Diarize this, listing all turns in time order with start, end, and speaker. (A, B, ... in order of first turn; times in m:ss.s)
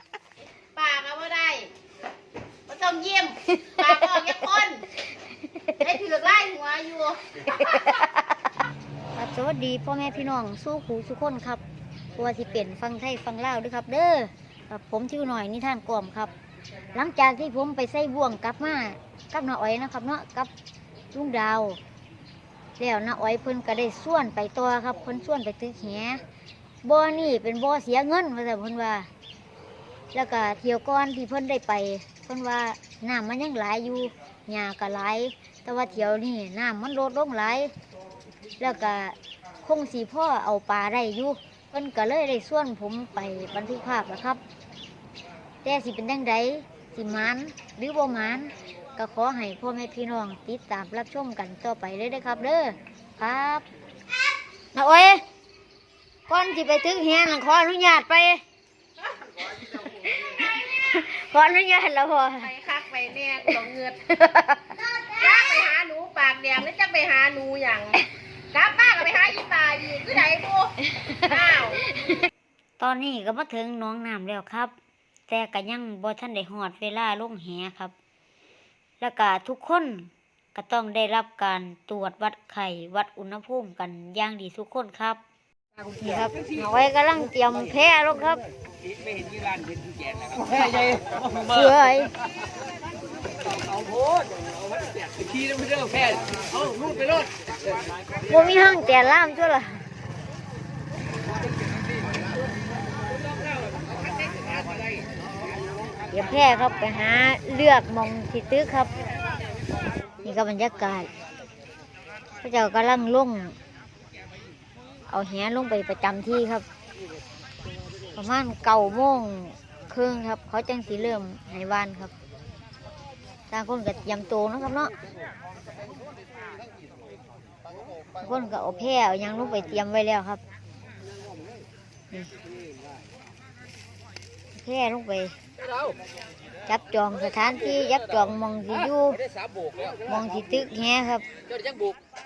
0:00.7-0:01.7 A
0:02.7-0:04.8 A
0:03.5-0:04.5 B
0:05.5-0:05.9 B
0:05.8-0:08.0 A
0:07.5-0:08.2 B
0:09.2-0:11.6 B
0:12.2-0:16.3 B
0:16.9-0:20.5 B
0:21.1-0:21.8 B
0:22.8-0:26.2 B
0:26.8-0:29.1 B
0:30.1-0:37.7 B
0:38.6-0:44.4 B
0:45.6-0:53.7 B
0:54.7-0:55.2 B
0:56.3-0:58.4 B
0:59.7-1:02.5 B
1:02.3-1:04.0 A
1:04.1-1:04.8 B
1:04.9-1:08.0 A
1:08.5-1:11.8 A
1:12.8-1:14.7 B
1:15.3-1:17.9 B
1:19.0-1:25.2 B
1:25.8-1:28.4 B
1:28.8-1:31.7 C
1:31.4-1:32.1 B
1:33.6-1:37.4 C
1:38.2-1:39.8 B
1:46.1-1:48.9 B
1:50.2-1:51.1 B
1:52.4-1:53.6 B
1:55.1-1:56.7 B
1:58.2-2:02.1 B
2:03.5-2:04.9 B
2:08.2-2:10.4 B
2:14.5-2:15.4 B
2:16.7-2:19.2 B
2:19.6-2:19.9 C
2:20.0-2:21.3 B
2:21.5-2:22.0 C